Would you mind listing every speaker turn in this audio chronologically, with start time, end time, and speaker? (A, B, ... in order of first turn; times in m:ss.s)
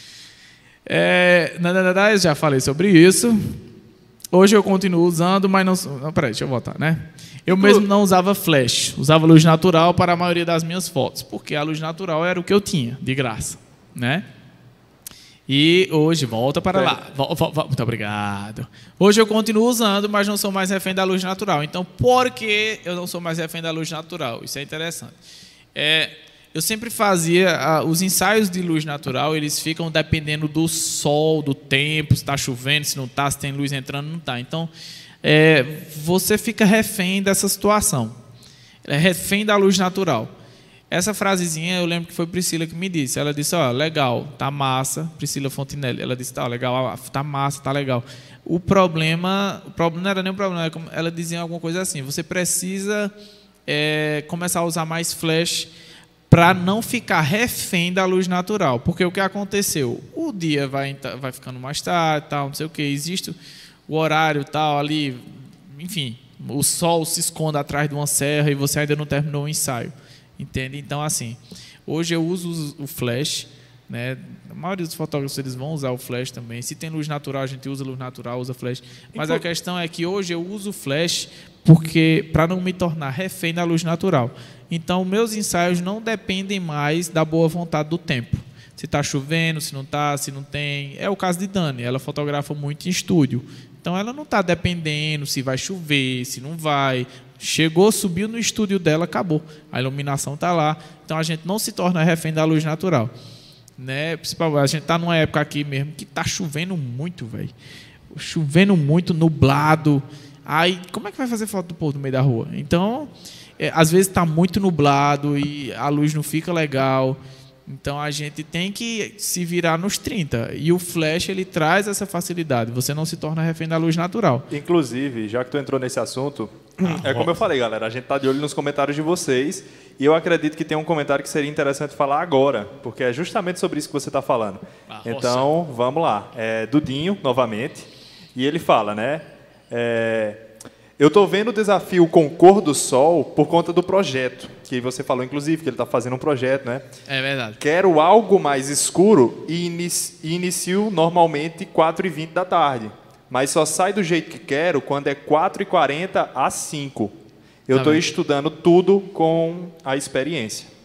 0:00.8-0:03.6 A
0:04.3-0:14.2 A
0:07.5-0:07.9 B
0:15.5-0:25.2 A
0:16.7-0:17.0 B
0:25.7-0:34.7 A
0:35.2-0:38.2 A
0:38.8-0:40.3 A
0:40.9-0:53.1 A
0:53.7-0:55.7 A
0:56.3-1:03.4 A
1:03.9-1:43.1 A
1:19.1-1:19.4 B
1:43.8-1:47.5 A
1:48.1-2:04.5 A
2:04.5-2:20.4 B
2:06.8-2:07.4 A
2:14.9-2:15.5 A
2:21.0-2:26.8 B
2:27.1-2:27.6 A
2:27.6-2:37.1 B
2:37.7-2:40.7 B
2:37.7-2:38.0 A